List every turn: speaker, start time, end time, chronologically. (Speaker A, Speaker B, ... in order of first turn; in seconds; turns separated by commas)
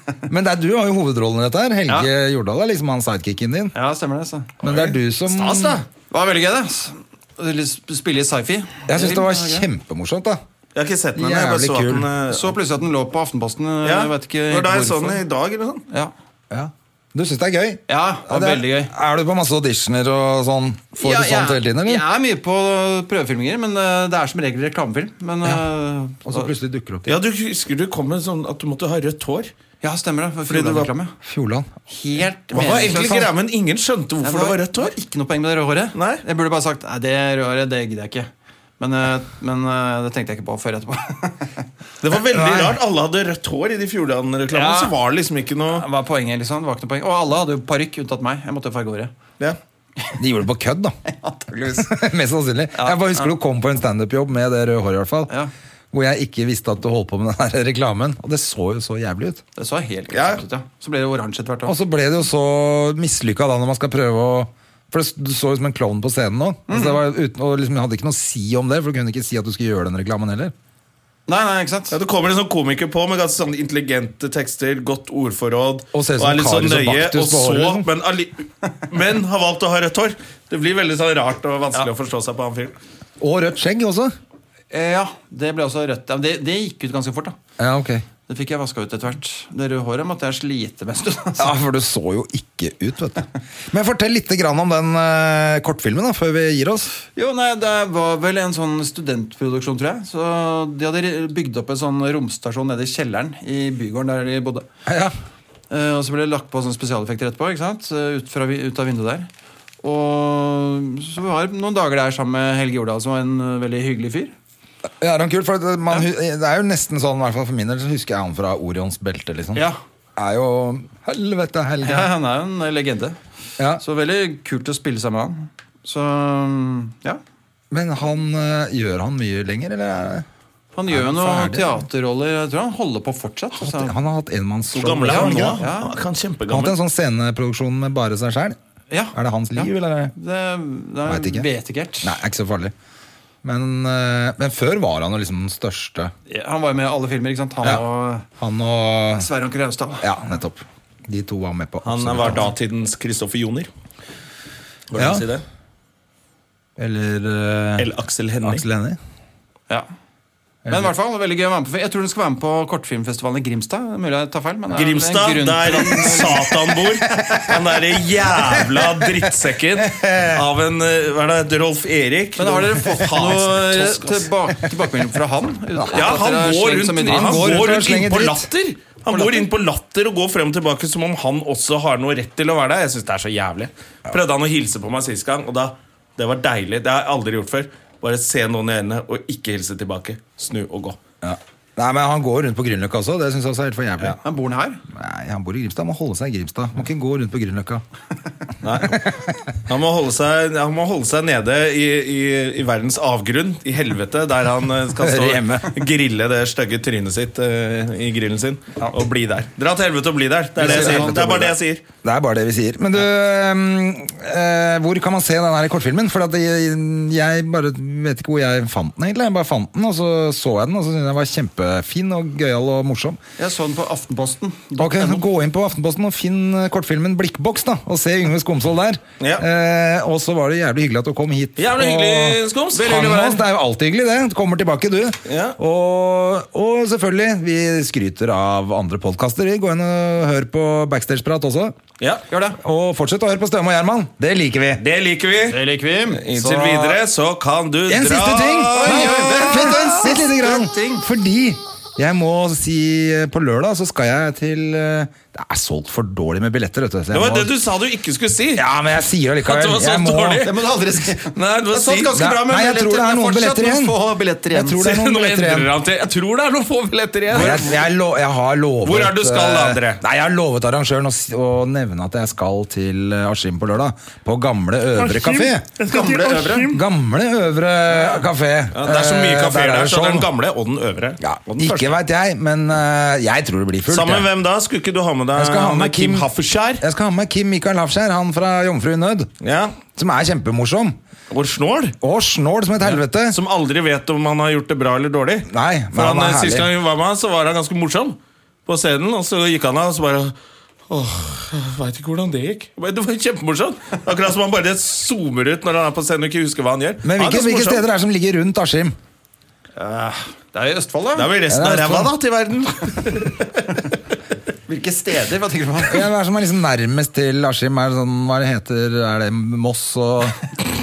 Speaker A: 0.3-3.7, Speaker B: 3.7-4.9, Speaker A: 4.6-5.8, Speaker C: 5.3-5.8, Speaker B: 6.0-9.7, Speaker A: 8.9-10.4, Speaker C: 10.7-12.6, Speaker A: 11.1-12.1, Speaker B: 12.3-15.2, Speaker C: 13.8-15.8, Speaker A: 16.5-22.0, Speaker B: 17.9-18.9, Speaker B: 20.9-26.5, Speaker A: 26.2-27.1, Speaker C: 27.0-29.5, Speaker B: 29.8-31.1, Speaker C: 30.5-30.9, Speaker A: 31.2-31.8, Speaker B: 31.9-33.3, Speaker C: 32.5-34.9, Speaker B: 34.2-41.5, Speaker C: 35.9-36.2, Speaker C: 42.0-45.8, Speaker A: 42.3-42.8, Speaker B: 44.5-45.0, Speaker B: 45.7-49.1, Speaker A: 50.2-51.0, Speaker B: 51.0-51.9, Speaker A: 51.8-55.3, Speaker B: 52.7-53.3, Speaker A: 55.9-59.4, Speaker B: 59.5-61.7, Speaker C: 60.1-60.4, Speaker A: 61.6-70.5, Speaker B: 66.7-67.0, Speaker B: 71.3-72.0, Speaker C: 71.9-82.7, Speaker A: 75.9-77.8, Speaker A: 83.2-84.1, Speaker B: 84.7-87.4, Speaker A: 87.6-88.0, Speaker B: 88.2-91.5, Speaker A: 91.4-96.9, Speaker B: 97.0-104.7, Speaker A: 104.9-105.1, Speaker B: 105.7-109.3, Speaker B: 109.8-114.3, Speaker A: 115.0-122.1, Speaker B: 119.5-119.8, Speaker B: 121.8-123.2, Speaker A: 123.6-123.8, Speaker B: 123.8-127.2, Speaker A: 127.7-130.2, Speaker B: 130.7-134.0, Speaker A: 130.9-131.8, Speaker A: 133.6-135.6, Speaker C: 134.7-136.7, Speaker B: 135.0-135.9, Speaker A: 136.5-138.6, Speaker B: 138.9-142.2, Speaker A: 139.1-140.1, Speaker A: 141.1-141.5, Speaker A: 142.0-142.7, Speaker A: 143.4-146.1, Speaker B: 146.3-148.3, Speaker A: 148.4-149.3, Speaker B: 149.1-150.1, Speaker A: 150.0-152.5, Speaker C: 151.8-153.7, Speaker C: 154.9-155.4, Speaker A: 154.9-155.2, Speaker A: 156.8-157.9, Speaker C: 157.8-158.6, Speaker A: 158.4-159.0, Speaker A: 160.7-160.9, Speaker B: 160.7-166.6, Speaker C: 164.7-174.3, Speaker A: 168.8-169.1, Speaker A: 169.8-170.4, Speaker B: 172.3-177.6, Speaker A: 175.7-176.1, Speaker C: 175.9-191.0, Speaker A: 177.1-178.5, Speaker B: 179.1-179.5, Speaker A: 191.2-194.2, Speaker B: 194.2-194.8, Speaker A: 194.9-197.8, Speaker C: 198.6-199.1, Speaker C: 199.7-211.8, Speaker A: 204.9-205.8, Speaker B: 210.6-211.5, Speaker A: 210.6-211.5, Speaker A: 212.0-223.2, Speaker B: 223.4-225.2, Speaker A: 224.8-241.7, Speaker C: 229.2-229.4, Speaker C: 231.6-233.1, Speaker B: 232.7-233.4, Speaker C: 235.2-235.6, Speaker C: 242.0-242.2, Speaker B: 242.3-242.6, Speaker A: 242.6-244.8, Speaker C: 244.8-249.7, Speaker B: 245.5-247.0, Speaker A: 247.9-257.5, Speaker B: 248.7-251.1, Speaker C: 257.1-258.6, Speaker A: 258.6-260.5, Speaker C: 259.4-260.5, Speaker B: 260.4-264.8, Speaker C: 261.3-262.4, Speaker A: 262.1-264.0, Speaker A: 264.5-265.7, Speaker C: 264.8-267.8, Speaker B: 267.3-267.8, Speaker A: 267.3-275.7, Speaker C: 268.8-270.0, Speaker C: 274.9-276.8, Speaker B: 275.8-276.8, Speaker A: 276.7-280.3, Speaker C: 278.7-281.9, Speaker A: 281.2-284.3, Speaker C: 283.9-286.8, Speaker A: 285.4-286.3, Speaker A: 286.8-289.3, Speaker C: 289.4-289.8, Speaker A: 289.9-291.0, Speaker C: 291.3-291.9, Speaker A: 292.0-293.4, Speaker C: 292.8-300.3, Speaker A: 295.5-296.7, Speaker C: 300.9-307.8, Speaker A: 307.0-308.9, Speaker B: 309.8-311.3, Speaker C: 311.1-313.6, Speaker A: 311.5-312.1, Speaker B: 314.7-316.1, Speaker A: 315.9-320.4